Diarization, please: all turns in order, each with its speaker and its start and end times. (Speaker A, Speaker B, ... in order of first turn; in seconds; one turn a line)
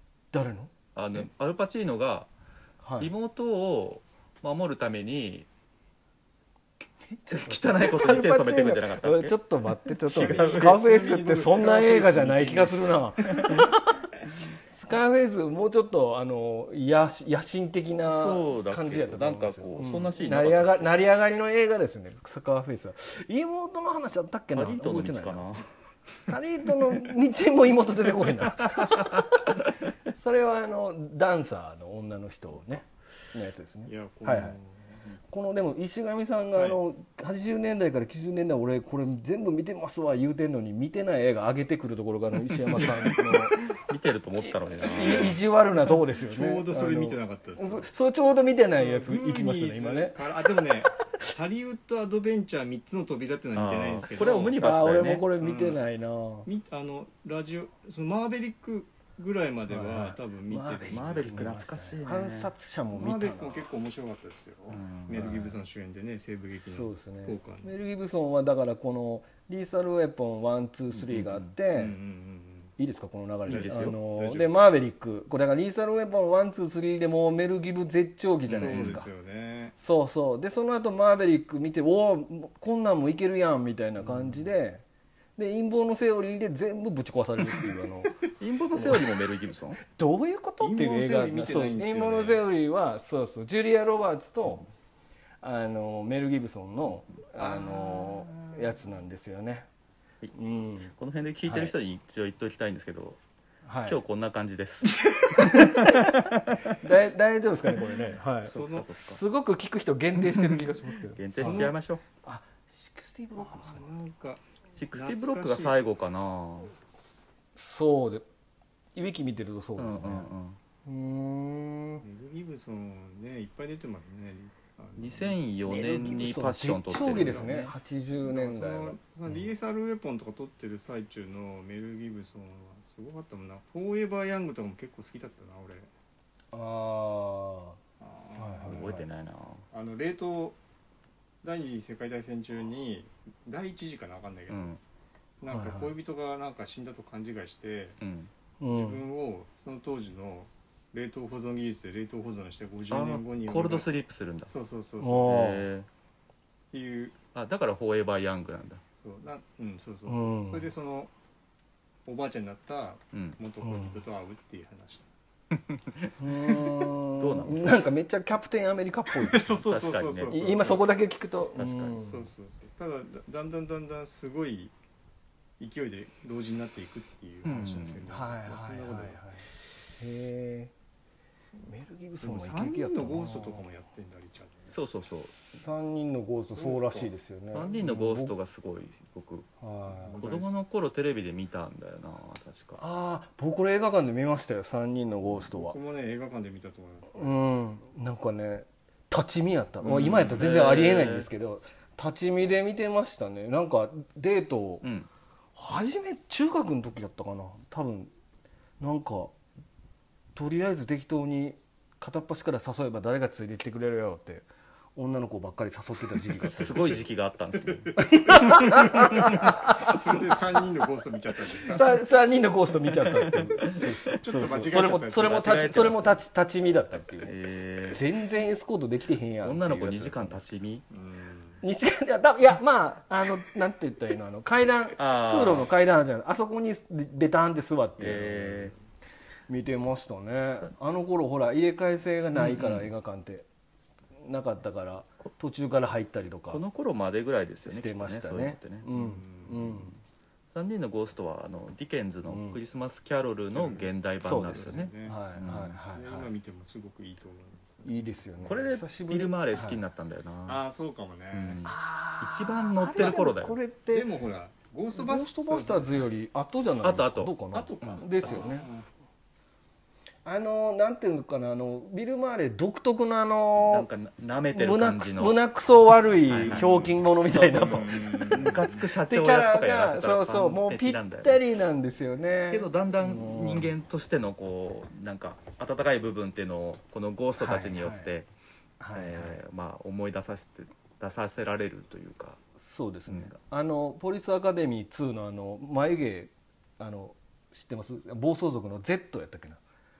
Speaker A: 0.3-0.7
Speaker B: 0.9-2.3
Speaker A: 2.8-3.1
Speaker B: 3.0-5.5
Speaker A: 7.1-13.8
Speaker B: 7.3-9.4
Speaker B: 9.9-10.8
Speaker C: 10.3-13.5
Speaker A: 14.7-25.5
Speaker B: 18.1-21.0
Speaker B: 24.5-25.7
Speaker A: 26.3-34.6
Speaker B: 28.7-29.0
Speaker C: 33.9-35.1
Speaker A: 35.3-43.8
Speaker B: 42.5-45.4
Speaker A: 44.8-50.6
Speaker C: 45.1-47.9
Speaker C: 48.8-54.6
Speaker B: 53.5-55.3
Speaker A: 54.6-56.5
Speaker C: 55.4-55.8
Speaker C: 56.5-61.5
Speaker A: 59.7-63.7
Speaker B: 60.9-62.5
Speaker C: 62.9-67.8
Speaker B: 64.7-65.4
Speaker A: 65.1-65.6
Speaker A: 66.5-72.0
Speaker B: 70.9-71.5
Speaker C: 71.7-72.7
Speaker A: 72.8-79.1
Speaker B: 73.5-73.9
Speaker C: 73.5-74.5
Speaker B: 78.5-79.0
Speaker C: 78.5-79.8
Speaker A: 79.8-84.8
Speaker A: 85.4-88.2
Speaker B: 88.4-89.8
Speaker A: 88.8-89.0
Speaker A: 89.8-94.7
Speaker C: 90.6-92.5
Speaker A: 95.4-99.7
Speaker C: 97.4-98.8
Speaker A: 100.3-100.9
Speaker B: 101.0-103.2
Speaker A: 101.5-101.7
Speaker A: 103.7-104.0
Speaker B: 103.9-106.7
Speaker A: 105.3-113.8
Speaker C: 108.4-108.9
Speaker B: 108.5-109.2
Speaker B: 110.3-110.6
Speaker B: 111.2-112.0
Speaker C: 111.4-111.7
Speaker C: 113.4-115.8
Speaker B: 114.8-116.7
Speaker A: 117.6-118.2
Speaker A: 118.9-120.3
Speaker B: 119.8-120.6
Speaker A: 120.9-122.0
Speaker C: 122.0-125.4
Speaker B: 125.0-127.6
Speaker A: 125.7-129.0
Speaker C: 126.9-135.9
Speaker A: 136.5-137.8
Speaker C: 138.0-139.0
Speaker A: 138.4-139.1
Speaker B: 138.7-139.7
Speaker C: 139.7-140.6
Speaker C: 141.4-144.8
Speaker B: 144.5-144.8
Speaker C: 145.4-148.0
Speaker A: 145.5-145.9
Speaker B: 148.0-148.3
Speaker A: 148.6-149.0
Speaker C: 148.7-153.9
Speaker B: 152.9-154.5
Speaker C: 154.5-155.4
Speaker A: 155.0-155.7
Speaker B: 155.2-155.9
Speaker C: 156.7-157.2
Speaker B: 157.3-158.8
Speaker C: 159.0-161.1
Speaker A: 160.1-160.7
Speaker C: 162.1-165.1
Speaker B: 163.1-163.4
Speaker A: 163.6-164.0
Speaker B: 165.5-166.1
Speaker A: 166.2-169.6
Speaker B: 167.2-167.8
Speaker C: 169.1-170.9
Speaker B: 169.5-170.8
Speaker A: 170.3-172.3
Speaker B: 171.6-172.0
Speaker C: 172.0-174.7
Speaker C: 175.6-179.2
Speaker B: 177.4-178.1
Speaker A: 178.1-179.5
Speaker A: 180.0-180.7
Speaker A: 181.6-183.6
Speaker C: 182.2-184.8
Speaker B: 184.7-185.3
Speaker A: 185.5-188.3
Speaker C: 186.5-187.1
Speaker B: 187.5-189.5
Speaker A: 189.6-190.2
Speaker C: 190.1-190.5
Speaker B: 190.1-192.8
Speaker A: 192.8-195.8
Speaker C: 195.5-197.3
Speaker A: 197.1-204.9
Speaker B: 199.8-201.3
Speaker B: 204.8-205.1
Speaker A: 205.6-208.1
Speaker A: 208.8-209.3
Speaker A: 210.4-217.1
Speaker B: 216.4-219.3
Speaker C: 217.7-221.9
Speaker A: 217.9-220.2
Speaker A: 221.7-227.3
Speaker B: 223.1-226.2
Speaker C: 224.1-225.8
Speaker B: 227.2-228.0
Speaker A: 227.9-230.5
Speaker B: 229.4-230.8
Speaker C: 230.9-231.6
Speaker A: 231.6-238.7
Speaker B: 235.0-235.7
Speaker B: 238.0-238.7
Speaker A: 239.5-243.4
Speaker B: 242.3-242.9
Speaker A: 244.2-246.6
Speaker B: 246.5-248.9
Speaker A: 247.7-250.0
Speaker C: 248.9-249.9
Speaker B: 250.5-255.8
Speaker A: 252.3-252.6
Speaker C: 253.5-255.2
Speaker A: 254.2-256.3
Speaker C: 255.9-258.5
Speaker A: 257.8-259.8
Speaker B: 258.4-260.6
Speaker C: 260.4-261.6
Speaker B: 261.3-263.6
Speaker A: 261.6-264.1
Speaker C: 263.9-266.1
Speaker A: 264.9-268.7
Speaker B: 266.8-268.4
Speaker C: 267.5-268.9
Speaker A: 270.2-273.9
Speaker B: 273.7-275.4
Speaker A: 274.5-283.7
Speaker B: 276.3-276.7
Speaker C: 276.4-276.9
Speaker B: 277.2-281.4
Speaker C: 277.5-278.8
Speaker B: 282.5-288.3
Speaker A: 287.4-288.1
Speaker A: 288.8-289.4
Speaker B: 288.9-292.4
Speaker A: 292.6-299.6
Speaker B: 293.1-293.4